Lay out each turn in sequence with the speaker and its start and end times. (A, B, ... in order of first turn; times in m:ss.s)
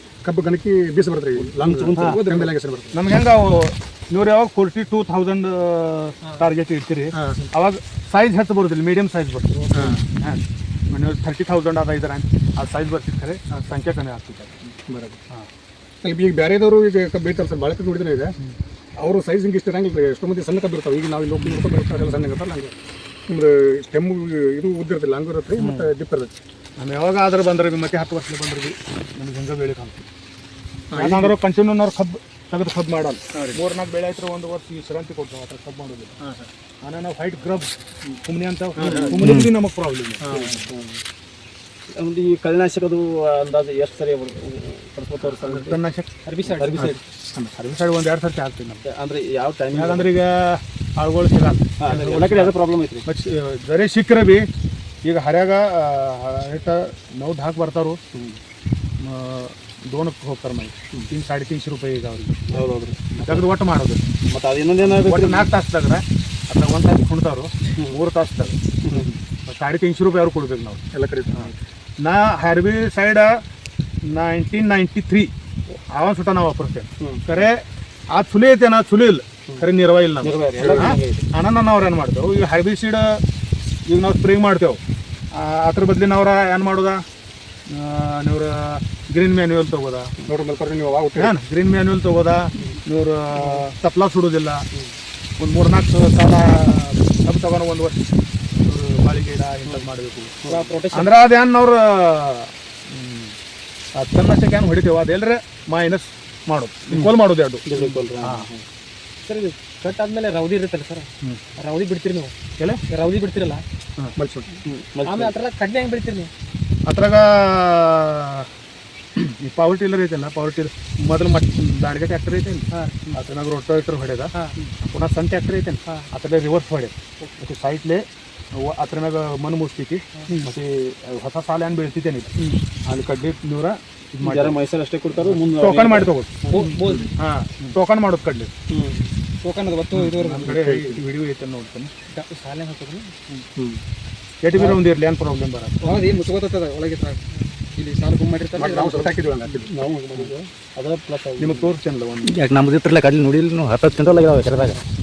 0:00.2-0:03.1 A
0:01.4-0:02.5 B
0:02.0-0:14.7 C
0:07.1-0:07.4 A
0:09.5-0:10.0 B
0:09.7-0:10.0 A
0:14.9-0:15.2 A
0:16.0-0:18.4 A
0:19.0-0:22.7 A
0:23.3-0:26.4 A
0:26.8-0:30.0 C
0:30.9-0:31.4 A
0:30.9-0:40.6 C
0:38.8-0:39.3 B
0:39.2-0:39.5 D
0:40.2-0:41.0 B
0:41.9-0:45.8 B
0:45.2-0:46.1 C
0:46.2-0:46.9 E
0:46.4-0:47.0 B
0:46.7-0:48.8 C
0:48.8-0:50.1 B
0:49.7-0:54.5 C
0:51.8-0:53.1 B
0:55.0-0:58.0 C
0:58.1-0:58.4 B
0:59.0-1:02.6 C
1:02.5-1:03.5 B
1:03.2-1:04.1 C
1:04.3-1:05.5 B
1:04.8-1:10.8 C
1:08.8-1:09.2 B
1:10.9-1:11.5 A
1:12.0-1:13.4 C
1:14.0-1:23.2 C
1:17.0-1:17.5 B
1:20.2-1:21.3 B
1:23.9-1:24.8 C
1:25.3-1:27.0 C
1:27.7-1:30.1 C
1:30.3-1:31.3 A
1:31.2-1:34.6 C
1:35.4-1:38.1 C
1:38.6-1:40.4 C
1:40.4-1:40.7 B
1:40.4-1:41.1 E
1:40.9-1:43.4 C
1:43.9-1:47.6 C
1:47.6-1:48.6 B
1:48.2-1:48.5 C
1:49.2-1:52.3 E
1:52.9-1:53.6 E
1:54.2-1:54.5 A
1:54.6-1:55.4 B
1:55.0-1:56.3 E
1:56.8-1:58.5 C
1:59.2-2:04.3 C
2:02.7-2:03.2 E
2:04.3-2:04.7 E
2:04.8-2:12.3 C
2:10.2-2:10.5 E
2:12.8-2:14.6 C
2:14.2-2:16.7 B
2:15.2-2:18.5 C
2:16.5-2:17.2 E
2:18.7-2:19.1 B
2:19.4-2:20.6 E
2:19.9-2:21.9 C
2:20.4-2:21.0 A
2:22.1-2:23.2 E
2:24.4-2:26.0 C
2:24.5-2:24.8 B
2:25.8-2:29.2 E
2:28.6-2:30.5 A
2:30.2-2:31.7 B
2:31.4-2:32.4 C
2:32.2-2:34.8 D